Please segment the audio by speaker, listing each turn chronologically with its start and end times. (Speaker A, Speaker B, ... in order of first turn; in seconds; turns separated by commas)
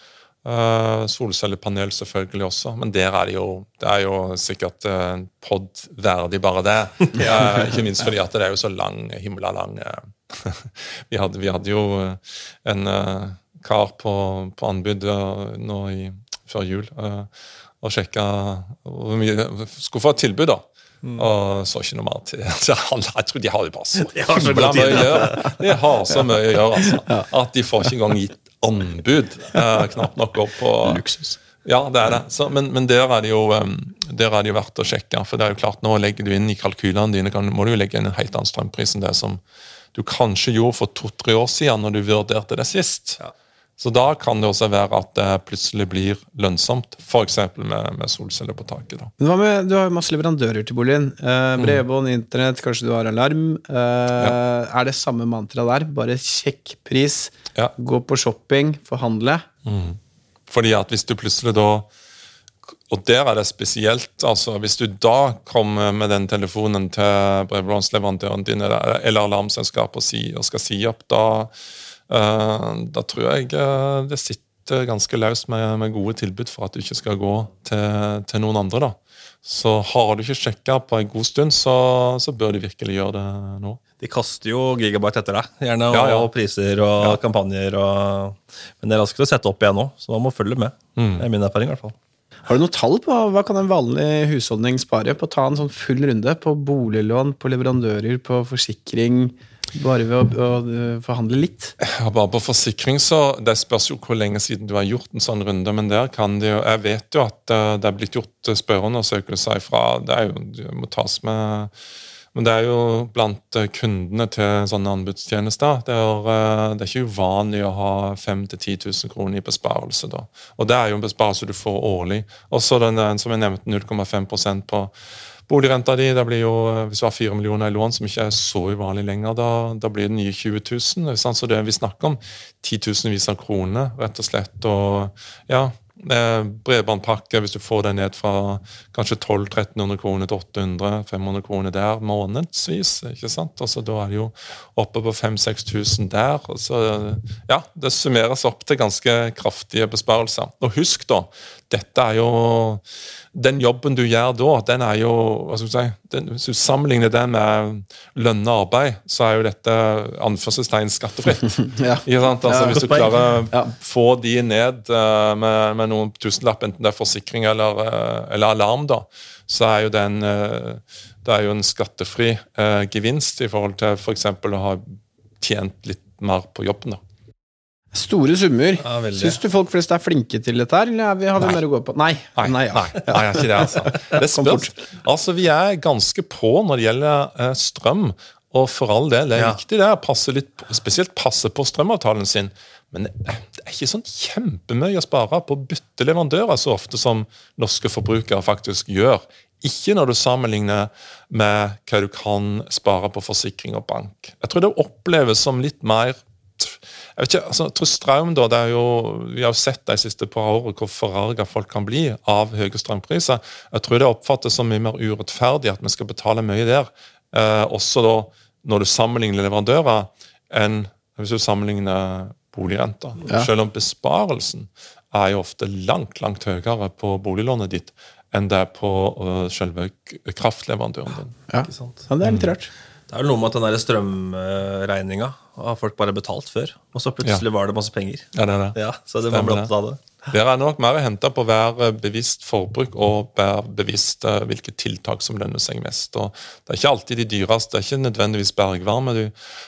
Speaker A: 0.4-17.3, Speaker A: 17.8-31.0, Speaker B: 24.0-25.6, Speaker C: 30.9-31.4, Speaker A: 31.6-39.4, Speaker A: 39.9-43.2, Speaker A: 43.8-49.1, Speaker C: 49.2-59.5, Speaker A: 59.6-60.0, Speaker A: 60.5-61.9, Speaker A: 62.9-71.5, Speaker A: 72.1-83.8, Speaker B: 84.0-92.0, Speaker A: 85.9-86.3, Speaker A: 91.0-91.3, Speaker C: 92.5-101.8, Speaker A: 101.8-111.7, Speaker A: 112.3-124.9, Speaker A: 125.5-177.0, Speaker C: 161.6-163.7, Speaker B: 162.7-163.1, Speaker C: 177.9-184.7, Speaker B: 178.8-179.4, Speaker A: 182.4-231.4, Speaker C: 231.5-232.7, Speaker B: 231.7-232.0, Speaker A: 232.2-232.5, Speaker B: 233.1-240.0, Speaker A: 238.3-238.8, Speaker A: 239.3-239.7, Speaker A: 240.3-249.3